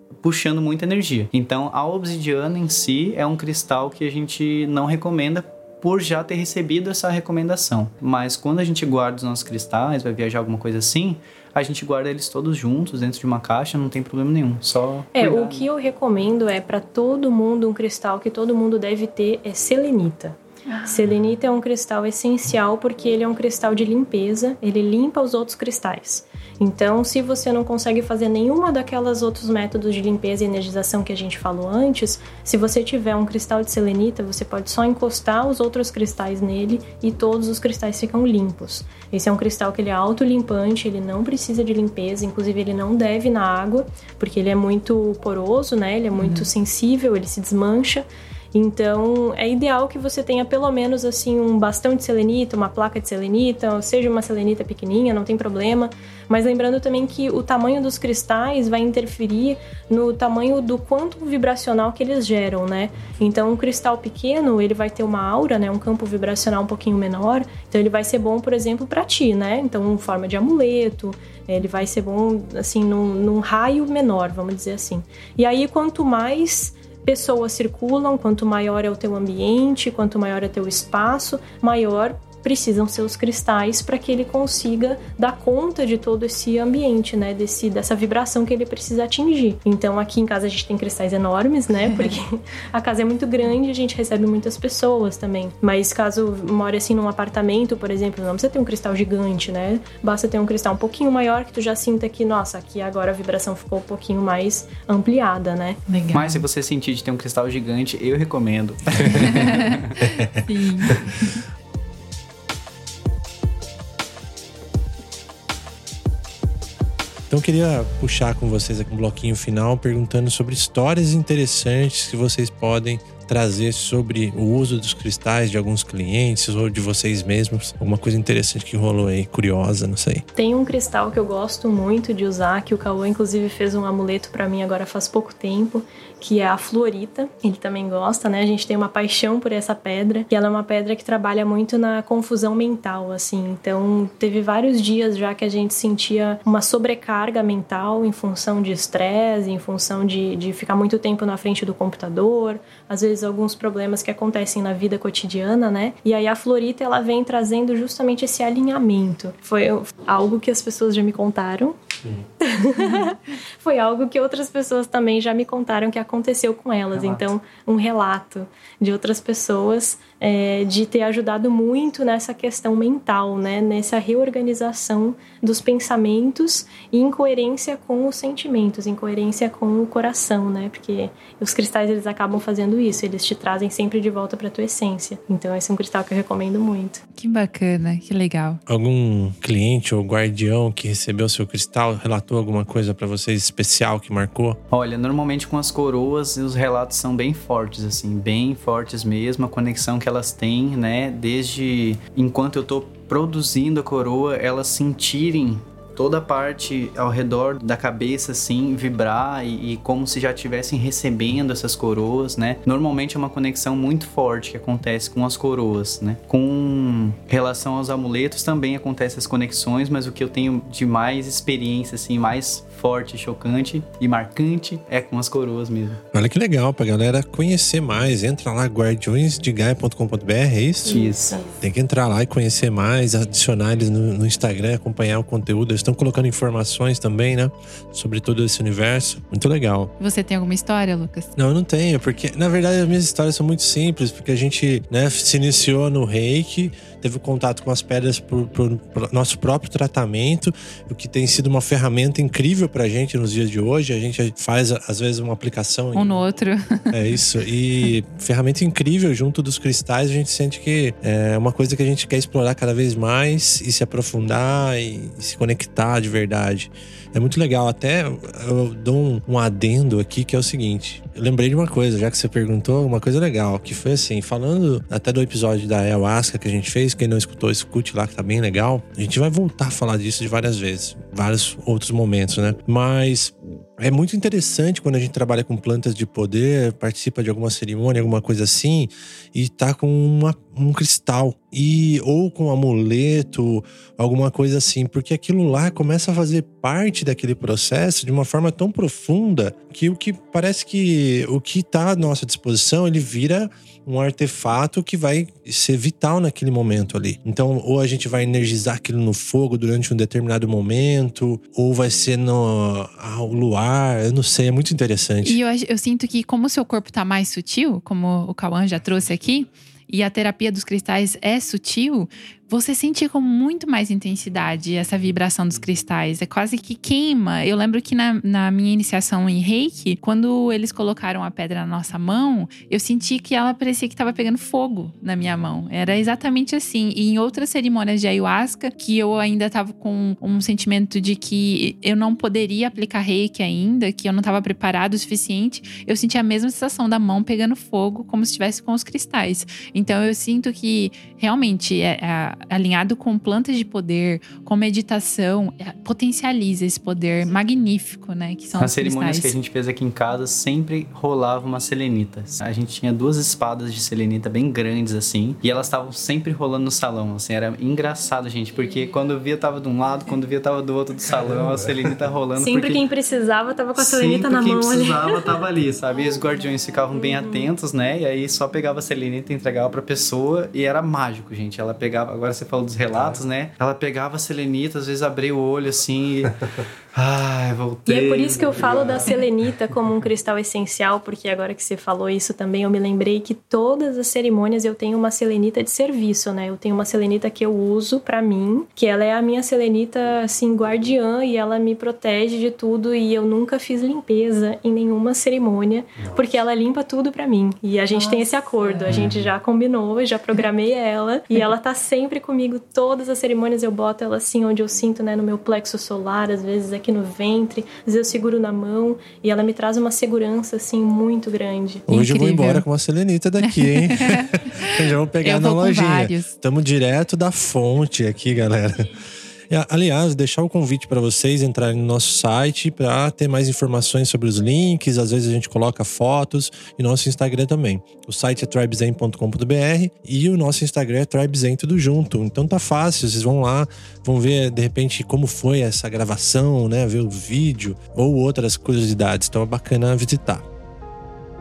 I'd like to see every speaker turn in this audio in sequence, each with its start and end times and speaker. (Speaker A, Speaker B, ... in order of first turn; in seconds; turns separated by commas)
Speaker A: 0.2-15.7, Speaker B: 15.1-105.8, Speaker C: 20.7-21.1, Speaker C: 46.2-46.5, Speaker C: 105.9-106.4, Speaker A: 106.1-110.0, Speaker C: 109.0-111.4, Speaker D: 117.3-130.2, Speaker B: 130.3-161.8, Speaker B: 162.4-187.0, Speaker C: 187.2-188.6, Speaker D: 188.7-194.6, Speaker A: 194.7-226.0, Speaker D: 226.1-231.0, Speaker A: 230.8-231.2, Speaker B: 230.8-231.5, Speaker D: 231.6-239.9, Speaker C: 240.0-241.3, Speaker D: 241.3-256.2, Speaker C: 255.9-257.0, Speaker D: 256.9-315.4, Speaker C: 315.2-359.3, Speaker A: 358.6-372.8, Speaker B: 372.4-375.2, Speaker A: 373.8-386.4, Speaker A: 386.9-389.1, Speaker B: 387.8-421.9, Speaker C: 407.9-409.1, Speaker C: 421.9-422.6, Speaker D: 421.9-428.9, Speaker C: 423.5-426.3, Speaker D: 429.5-450.4